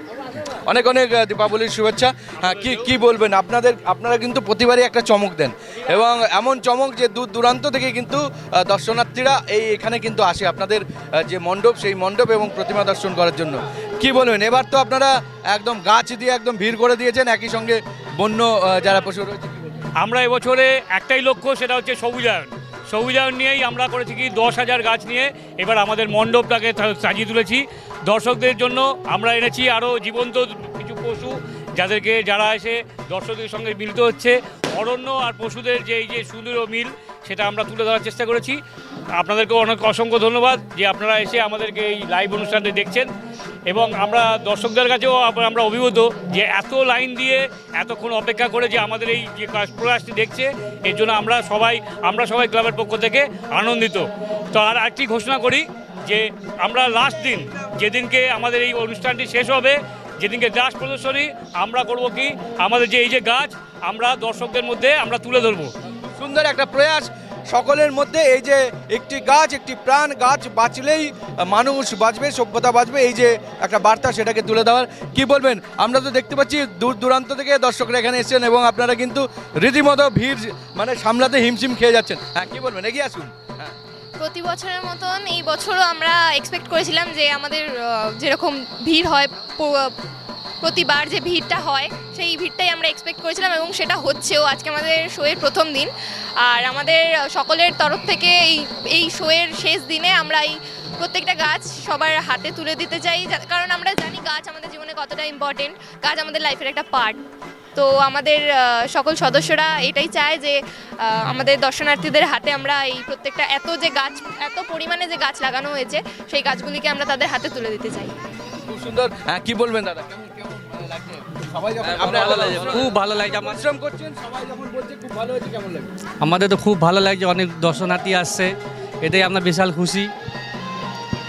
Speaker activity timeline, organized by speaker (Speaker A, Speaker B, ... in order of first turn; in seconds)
Speaker A: 0.6-19.6, 66.2-83.7, 118.6-125.9
Speaker B: 20.0-38.6, 39.2-43.1, 43.7-65.7
Speaker C: 84.2-89.9, 90.6-95.9, 96.4-107.2, 107.8-118.1
Speaker D: 121.9-123.6, 126.2-130.1